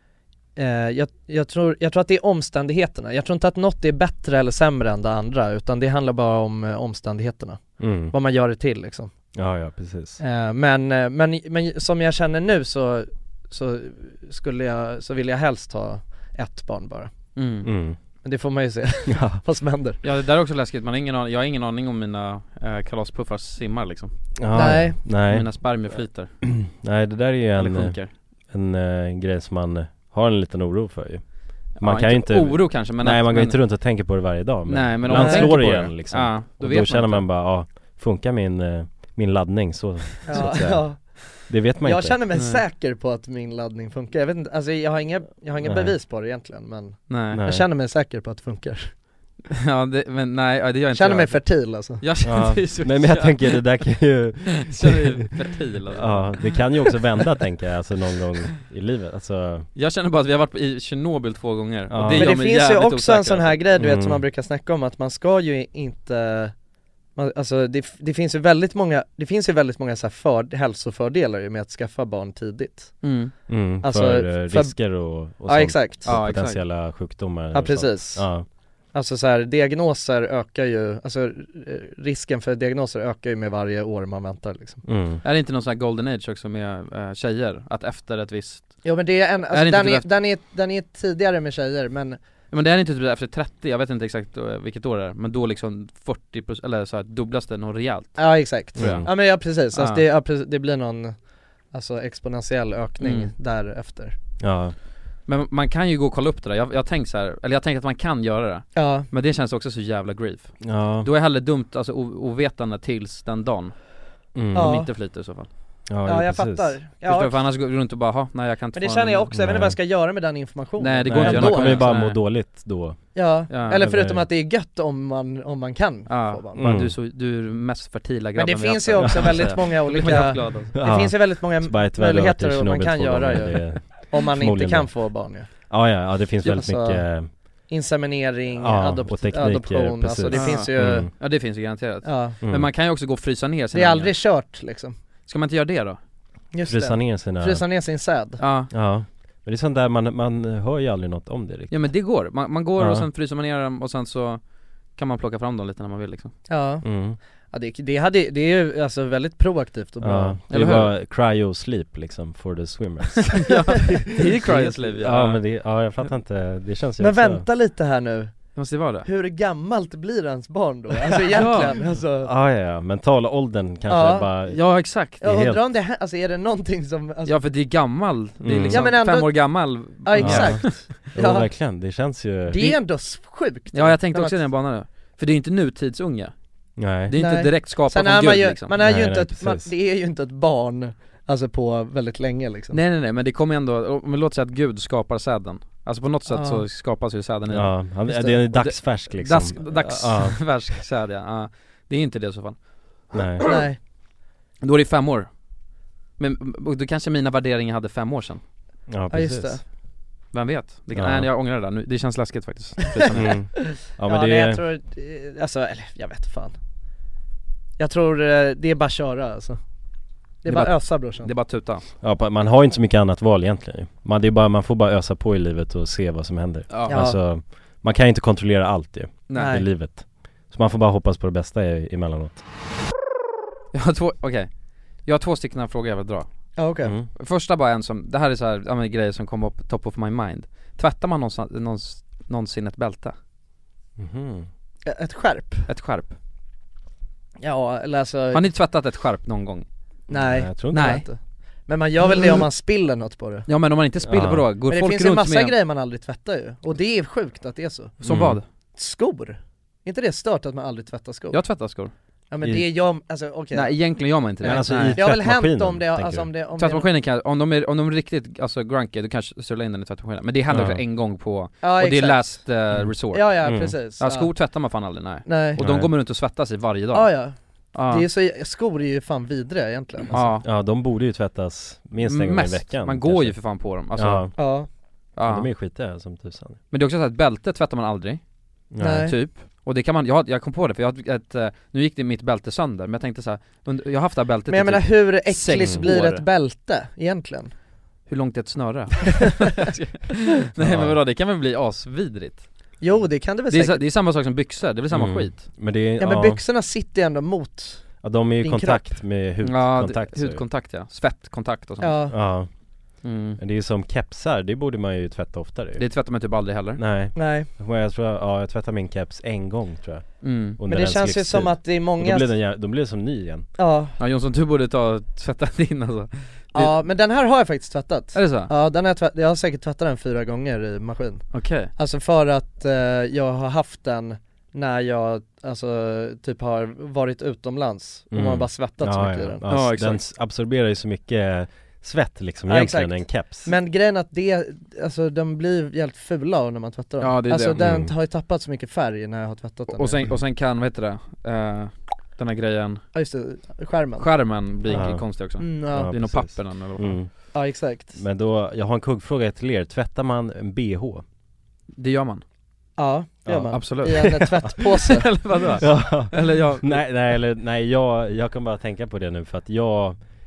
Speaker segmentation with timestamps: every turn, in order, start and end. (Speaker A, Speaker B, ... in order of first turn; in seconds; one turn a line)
Speaker A: 0.6-9.1
Speaker B: 7.8-8.1
Speaker B: 9.3-10.2
Speaker A: 10.2-17.1
Speaker C: 17.4-17.7
Speaker B: 17.6-18.0
Speaker A: 18.2-20.0
Speaker B: 19.1-19.4
Speaker C: 20.0-24.1
Speaker B: 24.4-25.5
Speaker A: 24.5-25.0
Speaker C: 25.1-26.3
Speaker B: 26.4-28.0
Speaker C: 27.6-28.1
Speaker B: 28.5-31.2
Speaker B: 31.8-42.2
Speaker C: 31.8-33.6
Speaker C: 34.7-37.2
Speaker A: 35.1-35.5
Speaker A: 40.3-41.3
Speaker A: 41.8-48.9
Speaker C: 42.3-42.6
Speaker B: 45.6-45.9
Speaker C: 47.1-47.4
Speaker B: 47.3-47.6
Speaker C: 49.5-53.6
Speaker A: 50.9-52.0
Speaker B: 52.2-55.1
Speaker C: 54.7-56.6
Speaker B: 55.9-59.7
Speaker C: 59.8-63.6
Speaker B: 61.9-62.4
Speaker A: 62.1-66.5
Speaker B: 63.8-64.2
Speaker A: 67.2-73.1
Speaker C: 73.0-73.3
Speaker B: 73.5-78.5
Speaker A: 73.8-74.8
Speaker A: 75.5-76.1
Speaker C: 76.1-76.6
Speaker A: 77.5-78.3
Speaker A: 78.9-84.8
Speaker B: 84.8-85.2
Speaker C: 85.2-88.9
Speaker A: 88.8-92.2
Speaker C: 89.5-90.1
Speaker C: 92.5-99.1
Speaker A: 98.2-101.2
Speaker B: 98.8-99.1
Speaker C: 99.7-100.0
Speaker A: 101.7-104.2
Speaker C: 103.0-103.3
Speaker B: 104.4-104.8
Speaker C: 105.3-113.8
Speaker A: 108.8-109.1
Speaker B: 110.6-111.1
Speaker B: 114.3-114.7
Speaker C: 114.5-115.5
Speaker A: 114.5-114.9
Speaker B: 115.9-116.8
Speaker A: 116.0-117.4
Speaker C: 117.0-119.3
Speaker A: 118.7-121.9
Speaker B: 119.3-119.8
Speaker C: 120.8-122.2
Speaker B: 121.0-123.0
Speaker A: 123.2-126.7
Speaker C: 123.5-123.8
Speaker B: 123.8-124.3
Speaker C: 126.1-130.7
Speaker B: 126.6-127.0
Speaker A: 128.4-135.5
Speaker B: 129.0-129.5
Speaker B: 130.2-137.3
Speaker A: 136.4-137.0
Speaker A: 137.7-141.1
Speaker B: 138.5-141.1
Speaker C: 140.3-144.2
Speaker A: 142.0-142.4
Speaker B: 142.4-142.7
Speaker A: 143.7-145.0
Speaker C: 145.3-146.0
Speaker A: 146.5-148.4
Speaker B: 146.7-147.6
Speaker C: 148.4-148.7
Speaker B: 148.7-151.8
Speaker C: 151.7-154.4
Speaker B: 152.8-153.1
Speaker C: 154.9-156.3
Speaker A: 156.5-160.4
Speaker B: 156.8-157.2
Speaker B: 160.0-163.8
Speaker C: 160.5-160.9
Speaker C: 163.3-165.4
Speaker B: 164.5-167.4
Speaker A: 167.0-168.5
Speaker C: 168.6-169.1
Speaker A: 169.1-172.3
Speaker C: 171.3-171.8
Speaker B: 172.2-175.6
Speaker A: 173.9-174.3
Speaker C: 174.5-175.2
Speaker A: 175.2-177.3
Speaker C: 177.2-180.8
Speaker B: 178.4-178.9
Speaker A: 178.7-181.5
Speaker B: 180.2-182.8
Speaker A: 182.5-184.4
Speaker C: 183.7-186.3
Speaker B: 186.8-187.1
Speaker C: 187.0-188.7
Speaker A: 187.1-192.8
Speaker B: 188.8-189.7
Speaker C: 192.7-198.0
Speaker A: 196.3-196.6
Speaker B: 197.5-200.6
Speaker A: 198.1-198.4
Speaker C: 198.5-202.6
Speaker B: 203.1-203.5
Speaker A: 203.4-203.8
Speaker C: 204.6-205.3
Speaker C: 206.2-208.4
Speaker B: 208.9-209.6
Speaker A: 209.1-209.6
Speaker C: 210.3-213.4
Speaker B: 210.9-211.3
Speaker B: 213.1-214.6
Speaker A: 214.0-216.6
Speaker A: 217.8-219.6
Speaker A: 220.4-221.3
Speaker C: 220.5-221.8
Speaker B: 222.0-232.4
Speaker C: 226.7-227.0
Speaker A: 226.9-227.2
Speaker C: 229.3-229.6
Speaker A: 229.3-229.7
Speaker C: 233.7-234.5
Speaker C: 235.1-236.5
Speaker A: 236.6-236.9
Speaker B: 236.8-237.1
Speaker C: 237.1-243.1
Speaker B: 244.0-244.5
Speaker A: 244.9-245.7
Speaker C: 245.7-246.2
Speaker A: 247.4-248.4
Speaker C: 248.3-249.7
Speaker A: 250.1-253.5
Speaker B: 250.1-250.9
Speaker C: 250.7-251.1
Speaker C: 253.5-255.6
Speaker B: 254.0-254.5
Speaker A: 254.7-258.0
Speaker B: 258.0-258.4
Speaker C: 258.0-258.4
Speaker A: 258.8-261.4
Speaker C: 261.3-261.9
Speaker A: 262.3-263.7
Speaker C: 263.5-265.0
Speaker A: 264.4-266.9
Speaker B: 264.4-266.3
Speaker C: 266.6-277.2
Speaker B: 270.5-270.8
Speaker A: 271.6-272.5
Speaker B: 272.8-273.8
Speaker A: 273.1-274.3
Speaker A: 275.3-275.6
Speaker B: 275.6-275.9
Speaker A: 276.9-277.4
Speaker C: 277.7-278.1
Speaker A: 277.9-280.2
Speaker C: 280.1-280.4
Speaker B: 280.4-283.4
Speaker C: 282.0-284.4
Speaker B: 283.9-284.3
Speaker A: 284.4-284.7
Speaker C: 285.2-285.5
Speaker B: 285.2-286.6
Speaker C: 286.7-288.2
Speaker B: 288.7-289.1
Speaker A: 288.8-289.1
Speaker C: 288.9-296.2
Speaker A: 294.5-297.5
Speaker B: 295.6-295.9
Speaker C: 298.1-302.5
Speaker B: 300.6-301.0
Speaker A: 302.8-303.8
Speaker C: 303.5-305.4
Speaker B: 304.9-306.4
Speaker A: 306.0-308.9
Speaker B: 308.0-310.4
Speaker C: 309.4-312.1
Speaker A: 311.8-312.1
Speaker B: 312.1-312.5
Speaker C: 313.0-313.4
Speaker B: 313.4-315.8
Speaker C: 315.8-316.8
Speaker B: 316.8-323.5
Speaker A: 317.1-317.5
Speaker C: 320.2-320.6
Speaker A: 320.7-322.3
Speaker A: 323.6-324.0
Speaker C: 324.0-326.7
Speaker A: 326.5-331.2
Speaker C: 328.1-328.5
Speaker C: 331.3-331.7
Speaker A: 331.8-339.4
Speaker B: 338.1-343.5
Speaker C: 339.5-340.0
Speaker A: 342.5-350.0
Speaker C: 347.0-347.6
Speaker B: 347.6-347.9
Speaker C: 349.7-352.8
Speaker A: 352.9-354.1
Speaker C: 354.0-357.0
Speaker A: 354.7-355.9
Speaker B: 354.7-357.4
Speaker A: 357.3-358.0
Speaker B: 357.9-361.0
Speaker C: 361.8-362.2
Speaker A: 362.8-365.1
Speaker B: 363.3-364.1
Speaker C: 363.5-366.8
Speaker B: 365.6-370.0